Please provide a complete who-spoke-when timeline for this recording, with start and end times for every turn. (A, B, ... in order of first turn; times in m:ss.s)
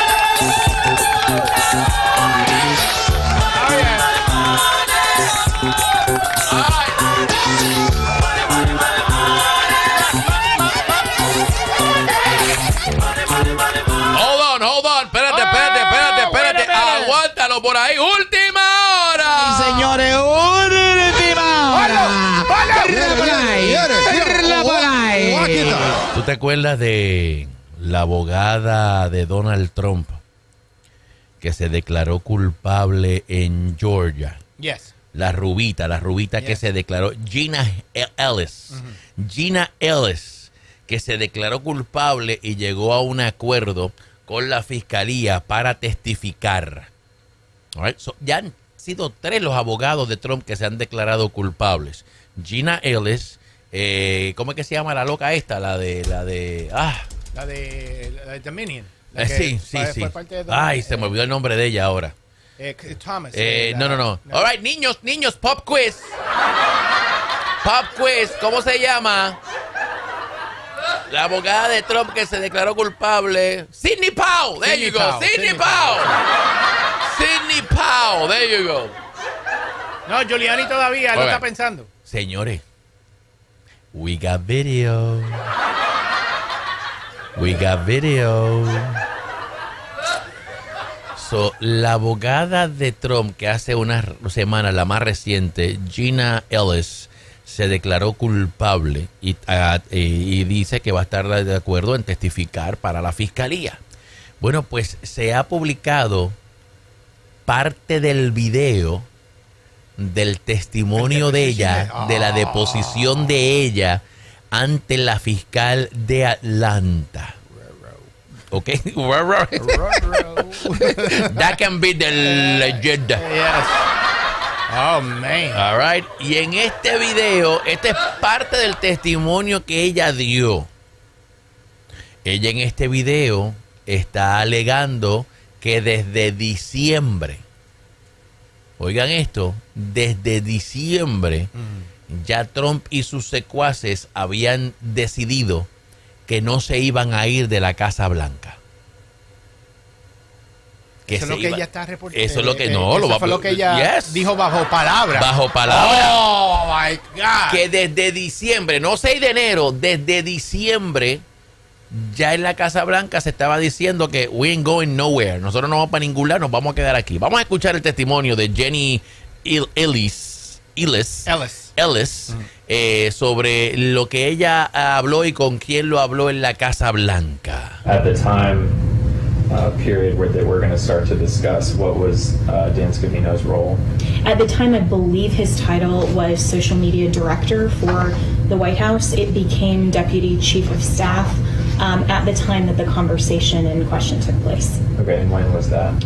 0:03.5-0:04.1 A
0:06.4-0:07.2 B
0:14.0-0:19.9 B
0:15.4-0:16.7 A
0:19.4-0:26.0 C
0:22.5-0:24.9 A
0:25.4-0:25.9 A
0:26.1-0:30.2 B
0:31.4-0:34.4 B
0:34.6-0:34.9 A
0:35.1-0:46.9 B
0:38.7-0:39.0 A
0:47.8-0:57.1 B
0:57.3-1:01.1 A
0:59.1-1:02.2 B
1:02.6-1:04.5 A
1:03.3-1:06.2 B
1:07.6-1:09.4 B
1:11.1-1:16.2 B
1:14.6-1:16.2 A
1:17.0-1:19.0 B
1:20.1-1:21.9 A
1:21.1-1:21.4 B
1:22.1-1:22.6 B
1:23.9-1:25.5 B
1:27.4-1:29.0 B
1:31.2-1:43.8 B
1:44.4-1:46.4 B
1:47.5-1:49.1 B
1:50.0-1:54.0 B
1:51.0-1:53.4 A
1:54.5-1:57.4 B
1:57.5-1:58.1 A
1:58.5-2:03.2 B
1:59.6-2:01.6 A
2:02.2-2:03.9 A
2:04.7-2:05.6 A
2:05.5-2:10.7 B
2:12.2-2:17.4 B
2:18.8-2:21.5 B
2:21.6-2:21.9 A
2:22.1-2:25.7 B
2:26.3-2:28.6 B
2:31.1-2:37.6 A
2:31.1-2:34.3 B
2:35.1-2:36.2 B
2:37.5-2:41.2 B
2:41.9-2:57.8 B
2:51.3-2:51.7 A
2:57.8-2:58.8 D
2:59.5-3:03.8 D
3:04.2-3:14.8 E
3:15.0-3:16.0 D